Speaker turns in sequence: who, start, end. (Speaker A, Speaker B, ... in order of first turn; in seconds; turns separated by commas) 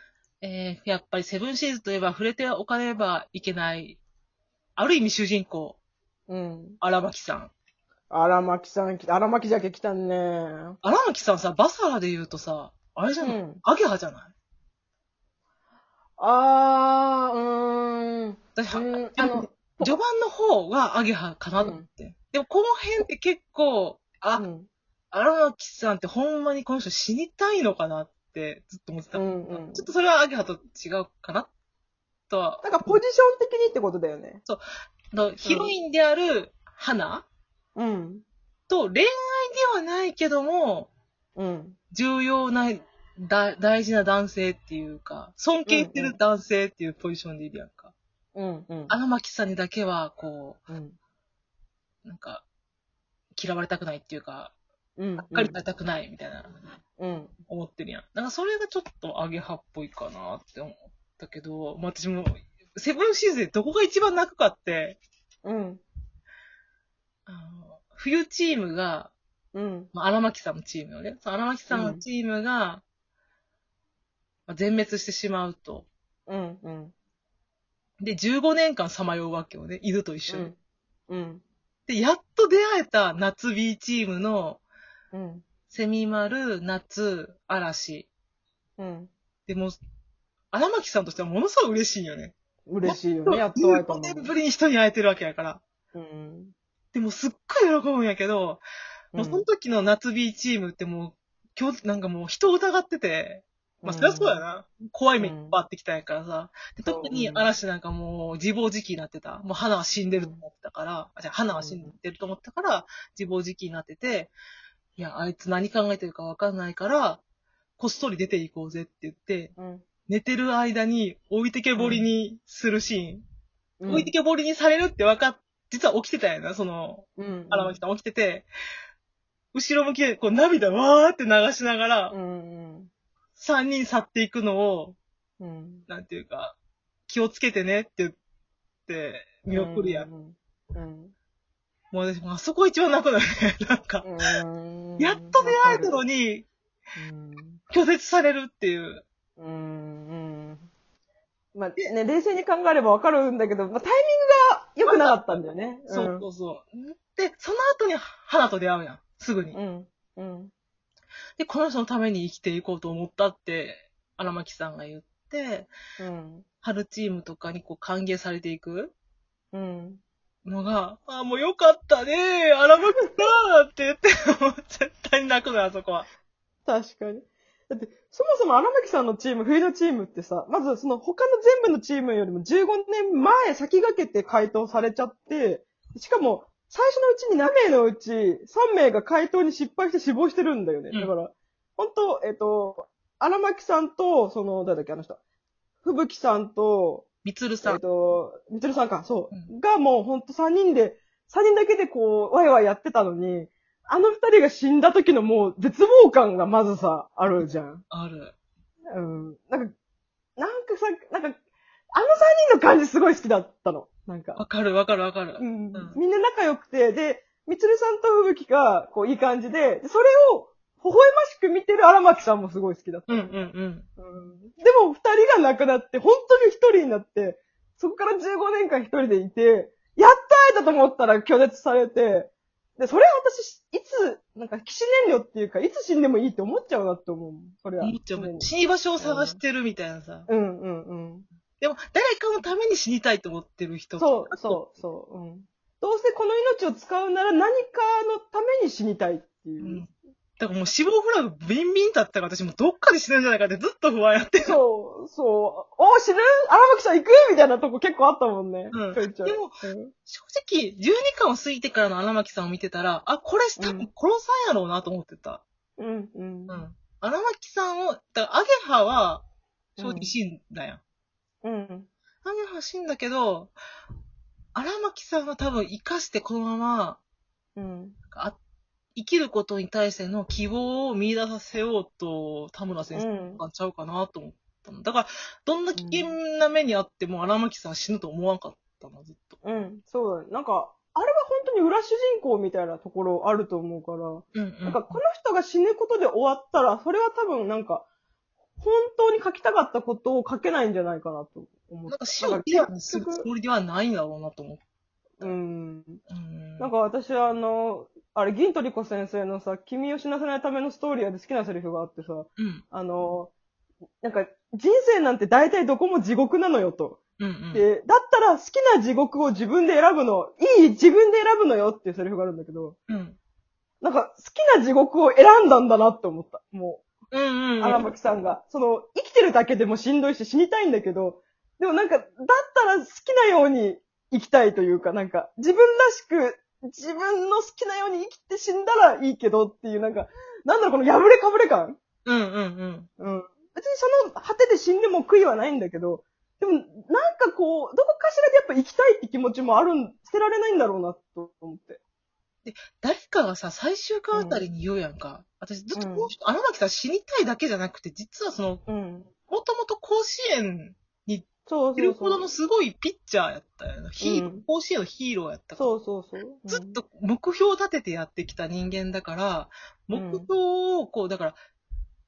Speaker A: 0.4-4.0, Speaker A: 4.8-5.8, Speaker B: 6.3-6.8, Speaker A: 6.8-7.5, Speaker B: 8.1-10.8, Speaker A: 10.8-14.3, Speaker B: 13.2-13.6, Speaker B: 16.2-20.0, Speaker A: 18.5-24.4, Speaker B: 21.6-21.8, Speaker B: 24.4-24.7, Speaker A: 25.1-31.5, Speaker B: 29.1-29.9, Speaker A: 32.3-33.0, Speaker B: 32.6-34.4, Speaker A: 34.5-37.2, Speaker B: 35.4-35.7, Speaker B: 37.8-38.2, Speaker A: 38.7-40.9, Speaker B: 41.4-41.8, Speaker A: 41.9-47.9, Speaker B: 45.7-46.2, Speaker B: 48.3-48.9, Speaker A: 48.9-50.6, Speaker B: 50.7-51.0, Speaker A: 52.0-52.4, Speaker A: 53.3-54.5, Speaker B: 55.0-55.5, Speaker A: 55.2-56.6, Speaker B: 57.0-57.3, Speaker A: 57.5-65.0, Speaker B: 65.4-65.8, Speaker A: 67.3-69.1, Speaker B: 69.5-69.9, Speaker A: 69.9-72.8, Speaker B: 71.7-72.0, Speaker A: 74.5-75.9, Speaker B: 76.3-76.9, Speaker A: 78.0-80.5, Speaker B: 80.3-80.5, Speaker B: 81.1-81.4, Speaker A: 81.9-84.6, Speaker B: 85.1-85.4, Speaker A: 85.7-88.1, Speaker B: 88.8-89.1, Speaker A: 89.5-89.8, Speaker A: 90.5-95.6, Speaker B: 92.7-94.3, Speaker B: 95.9-96.5, Speaker A: 96.9-98.6, Speaker B: 99.1-99.5, Speaker A: 99.2-114.3, Speaker B: 103.8-104.4, Speaker B: 105.2-105.6, Speaker B: 106.8-107.5, Speaker B: 110.1-110.4, Speaker B: 111.6-111.9, Speaker A: 115.0-117.2, Speaker A: 117.8-119.5, Speaker B: 119.5-119.8, Speaker A: 120.1-123.2, Speaker B: 121.8-122.1, Speaker B: 123.8-124.1, Speaker A: 123.9-128.5, Speaker B: 127.2-127.8, Speaker A: 129.5-132.1, Speaker B: 132.1-132.9, Speaker A: 133.3-135.0, Speaker B: 135.4-135.8, Speaker A: 135.9-136.6, Speaker A: 137.1-138.2, Speaker A: 138.9-140.1, Speaker B: 139.5-141.1, Speaker A: 141.9-144.1, Speaker B: 144.0-146.0, Speaker A: 145.0-146.5, Speaker B: 146.9-147.6, Speaker A: 147.7-149.0, Speaker B: 149.4-150.7, Speaker B: 151.5-156.3, Speaker A: 154.8-159.6, Speaker B: 159.5-160.5, Speaker A: 161.4-165.7, Speaker B: 166.0-166.4, Speaker A: 166.6-168.9, Speaker B: 169.5-170.0, Speaker A: 170.4-176.1, Speaker B: 176.7-195.2, Speaker B: 195.8-197.1, Speaker A: 197.2-197.8, Speaker B: 197.6-207.8, Speaker A: 207.9-208.3, Speaker B: 208.9-209.7, Speaker B: 210.4-211.4, Speaker B: 211.9-214.4, Speaker A: 214.3-216.0, Speaker B: 215.4-223.3, Speaker A: 223.1-223.8, Speaker B: 224.0-239.4, Speaker A: 237.8-240.3, Speaker B: 240.3-241.2, Speaker A: 241.6-244.6, Speaker B: 244.0-249.8, Speaker A: 249.6-254.6, Speaker B: 254.4-259.9, Speaker A: 258.7-265.4, Speaker B: 263.6-263.9, Speaker B: 265.8-266.6, Speaker A: 266.5-269.2, Speaker B: 269.8-270.1, Speaker A: 269.8-270.8, Speaker B: 271.4-271.9, Speaker A: 272.2-273.5, Speaker A: 274.5-277.0, Speaker B: 277.6-278.0, Speaker A: 278.1-278.4, Speaker A: 278.9-289.4, Speaker B: 282.9-283.4, Speaker B: 285.8-286.1, Speaker B: 289.4-297.9, Speaker A: 294.3-295.0, Speaker B: 298.6-303.3, Speaker A: 301.9-304.6, Speaker B: 305.2-306.0, Speaker A: 306.1-306.7, Speaker B: 306.6-313.3, Speaker A: 312.4-312.6, Speaker B: 314.0-317.0, Speaker A: 317.2-317.6, Speaker B: 317.5-322.8, Speaker A: 322.9-323.2, Speaker B: 323.8-326.8, Speaker A: 327.1-327.9, Speaker B: 327.6-341.8, Speaker A: 342.1-342.9, Speaker B: 343.0-351.8, Speaker A: 352.4-358.6, Speaker B: 354.1-354.4, Speaker B: 355.7-356.1, Speaker B: 358.7-359.1, Speaker A: 359.3-365.7, Speaker B: 361.5-362.2, Speaker B: 364.0-364.4, Speaker B: 365.6-366.8, Speaker A: 366.5-371.4, Speaker B: 369.9-370.3